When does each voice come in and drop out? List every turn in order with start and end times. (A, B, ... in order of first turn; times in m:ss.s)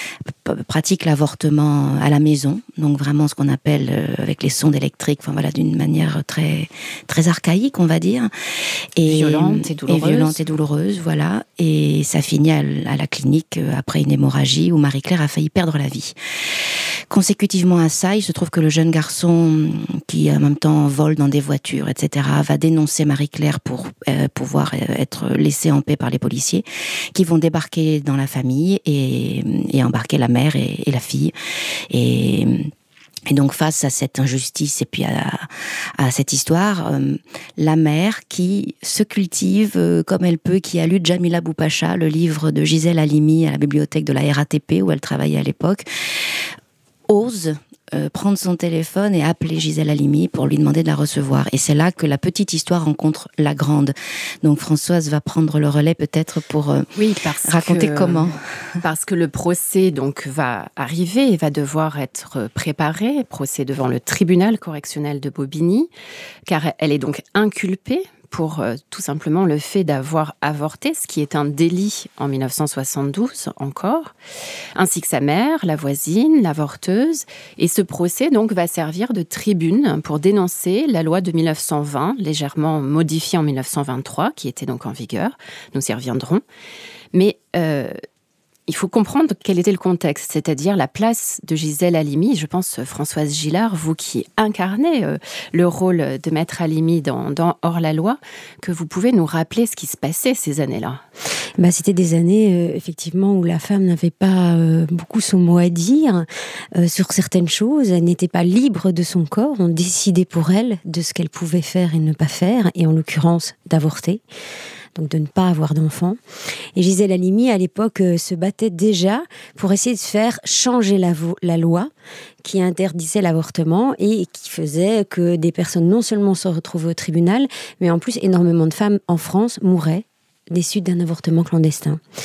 0:00.2-0:08.3 A
0:09.0-0:31.3 A
0:09.0-0:10.4 B
0:31.9-0:32.7 A
0:33.3-0:46.5 A
0:47.1-0:56.9 A
0:57.0-1:05.9 B
0:57.4-0:58.4 A
1:06.5-1:14.1 B
1:14.8-1:26.4 B
1:27.1-1:28.0 B
1:28.7-1:41.0 B
1:41.6-1:54.2 C
1:55.0-1:56.2 C
1:56.8-2:01.9 C
2:02.4-2:12.0 C